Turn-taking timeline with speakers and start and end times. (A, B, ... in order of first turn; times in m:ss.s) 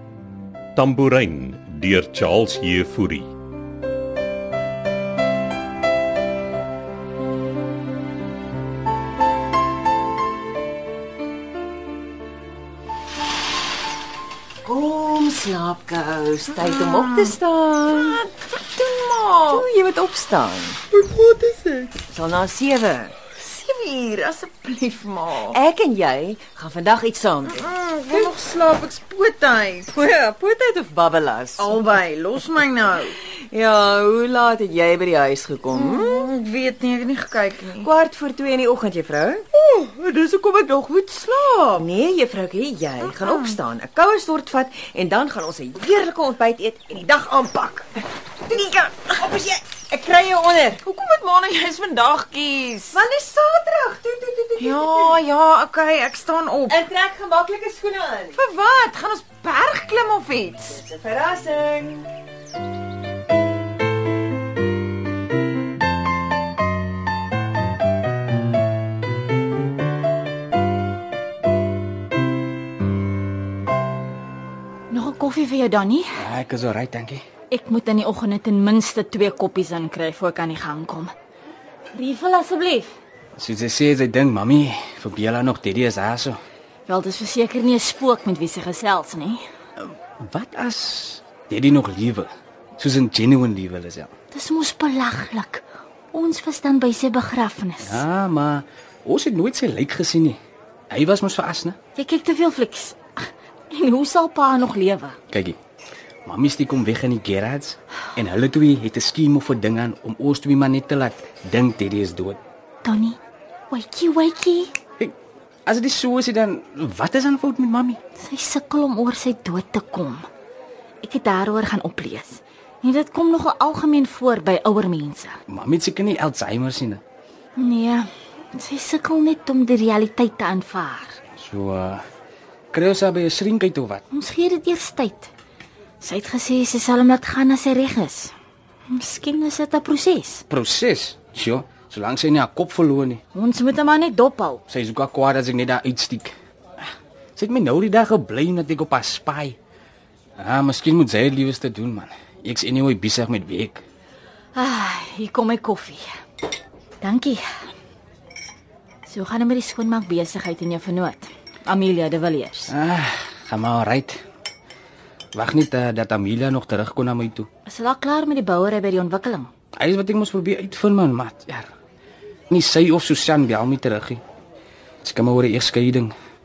0:00.8-0:03.3 A
0:14.6-0:18.3 B
0:16.6-0:17.4 C
0:18.5-0:19.6 C
0:18.9-0:20.8 B
0:20.9-0:21.9 C
0:22.1-0:23.1 B
0:23.4-0:25.6 C
0:25.5-0:28.3 B
0:27.5-0:29.9 C
0:29.9-0:31.9 B
0:31.6-0:33.1 C
0:33.5-0:36.3 B
0:35.7-0:37.9 C
0:37.7-0:39.4 B
0:39.5-0:41.8 C
0:40.0-0:40.7 B
0:41.7-0:47.9 B
0:43.1-0:43.6 C
0:48.5-0:50.8 B
0:50.8-0:53.0 C
0:52.9-0:55.2 B
0:54.6-0:56.8 C
0:56.7-0:58.4 B
0:58.3-1:00.8 C
1:00.6-1:02.1 B
1:14.9-1:16.2 D
1:16.2-1:17.2 E
1:17.5-1:21.1 D
1:21.9-1:22.9 D
1:23.4-1:26.4 E
1:26.9-1:29.4 D
1:29.8-1:34.1 E
1:34.3-1:38.0 D
1:37.8-1:40.4 E
1:40.9-1:41.8 E
1:42.0-1:43.0 D
1:43.7-1:45.2 D
1:45.3-1:45.6 E
1:46.2-1:52.4 E
1:52.8-1:53.2 D
1:53.7-1:54.7 D
1:55.6-1:58.0 E
1:58.2-2:00.2 D
2:01.0-2:05.4 D
2:05.5-2:07.0 E
2:07.6-2:11.2 D
2:11.4-2:12.0 E
2:12.7-2:14.0 E
2:14.1-2:15.3 D
2:16.0-2:18.3 D
2:18.9-2:20.4 D
2:20.5-2:23.2 E
2:23.3-2:24.6 D
2:24.7-2:29.6 E
2:30.4-2:33.8 E
2:34.6-2:36.0 D
2:37.0-2:37.4 D
2:39.1-2:42.7 D
2:42.7-2:44.2 E
2:45.3-2:47.5 E
2:47.6-2:49.5 D
2:49.8-2:51.7 E
2:52.5-2:54.2 E
2:55.0-2:56.1 E